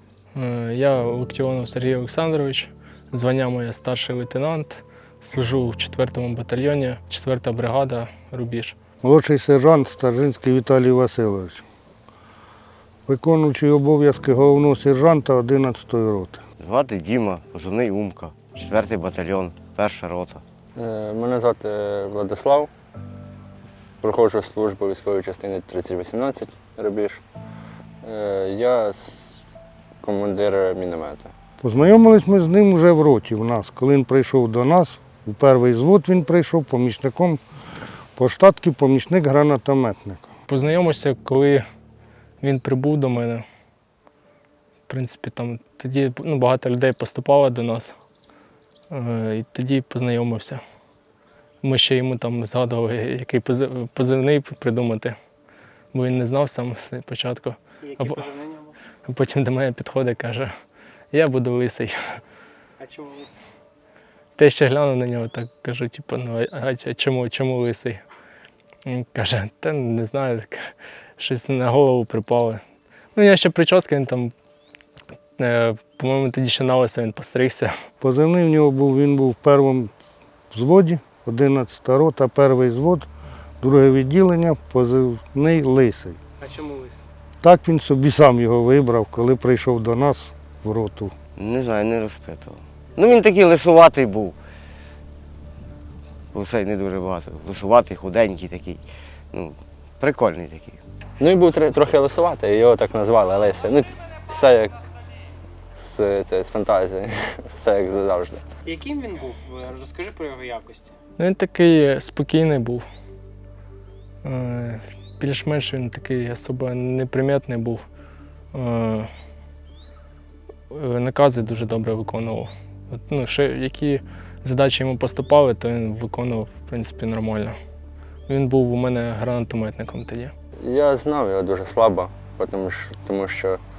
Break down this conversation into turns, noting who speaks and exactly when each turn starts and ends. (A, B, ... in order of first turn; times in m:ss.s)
0:00.3-0:08.8 A
0:09.0-0:11.6 B
0:13.1-0:16.4 B
0:16.6-0:20.4 C
0:20.8-0:22.7 D
0:24.0-0:27.2 D
0:28.0-0:29.4 D
0:30.0-0:31.3 D
0:31.6-0:37.4 B
0:38.2-0:40.2 B
0:40.5-0:41.6 A
0:42.4-0:43.4 A
0:44.9-0:47.9 A
0:48.9-0:50.6 A
0:51.6-0:55.2 A
0:55.9-0:58.2 A
0:57.8-0:58.8 E
0:59.0-1:00.5 A
1:01.1-1:02.2 A
1:02.8-1:03.4 E
1:04.4-1:08.0 A
1:08.8-1:12.6 A
1:13.1-1:14.3 A
1:15.4-1:17.7 A
1:18.0-1:19.9 B
1:20.5-1:23.1 B
1:23.6-1:26.2 B
1:26.4-1:27.0 E
1:27.4-1:31.1 B
1:31.4-1:34.4 C
1:36.3-1:40.8 C
1:41.2-1:44.8 D
1:45.7-1:48.4 D
1:48.6-1:51.0 E
1:51.2-1:52.8 A
1:54.2-1:57.8 A
1:58.5-1:59.1 A
2:00.7-2:07.6 A
2:08.3-2:10.3 A
2:10.6-2:13.6 D